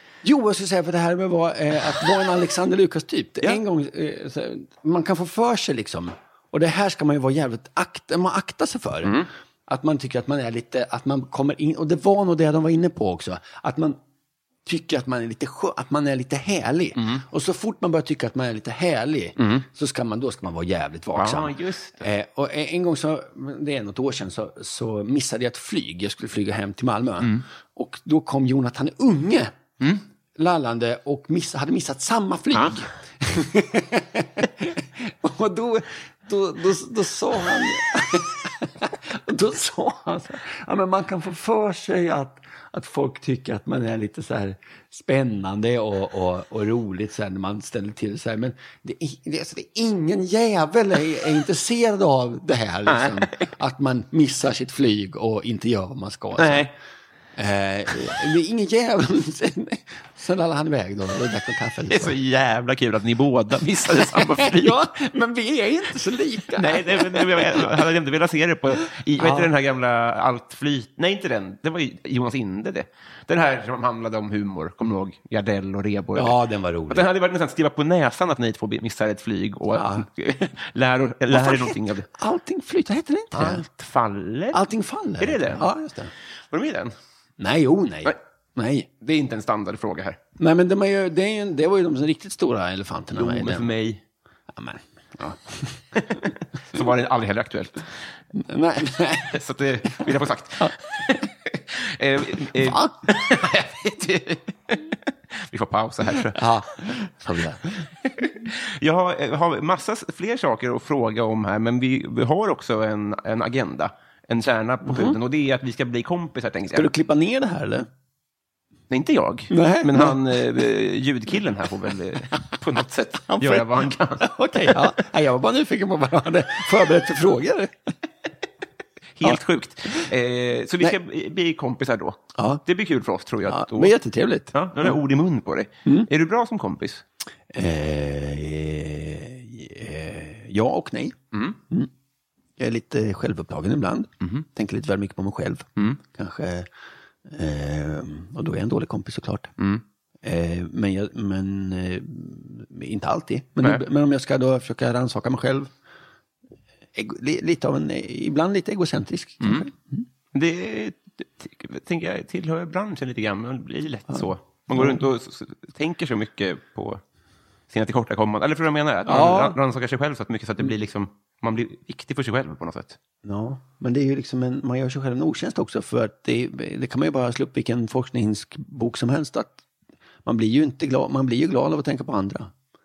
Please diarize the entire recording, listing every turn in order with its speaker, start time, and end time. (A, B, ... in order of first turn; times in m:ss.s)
0:00.2-0:14.0 A
0:14.6-0:29.5 A
0:17.0-0:17.2 B
0:19.4-0:19.6 B
0:21.1-0:22.1 B
0:30.4-0:56.7 A
0:32.5-0:32.8 B
0:52.8-0:53.5 B
0:56.4-0:56.7 B
0:57.4-1:02.1 A
1:01.9-1:04.8 B
1:04.1-1:07.7 A
1:06.5-1:22.1 B
1:09.2-1:09.5 A
1:16.2-1:17.1 A
1:19.7-1:20.0 A
1:21.3-1:23.6 A
1:23.3-1:24.6 B
1:24.5-1:26.1 A
1:25.2-1:25.7 B
1:26.5-1:26.9 B
1:27.4-1:28.9 A
1:29.0-1:30.2 B
1:30.4-1:33.7 A
1:33.1-1:34.0 B
1:34.5-1:36.3 A
1:36.1-1:37.9 B
1:38.3-1:39.3 A
1:39.3-1:46.4 B
1:42.6-1:42.9 A
1:46.3-1:47.8 A
1:48.0-1:56.9 B
1:54.8-1:55.2 A
1:56.7-1:57.9 A
1:58.9-2:04.9 B
1:59.5-2:00.2 A
2:03.3-2:07.7 A
2:09.2-2:13.9 B
2:12.3-2:12.6 A
2:13.5-2:14.9 A
2:14.5-2:17.0 B
2:17.5-2:21.2 A
2:21.3-2:21.6 B
2:22.6-2:26.7 A
2:27.3-2:29.5 A
2:29.6-2:29.8 B
2:30.2-2:35.7 A
2:36.9-2:40.0 A
2:39.4-2:39.7 B
2:40.3-2:47.0 B
2:44.7-2:45.0 A
2:47.7-2:53.0 B
2:49.0-2:49.6 A
2:53.2-2:59.6 A
3:00.2-3:02.5 A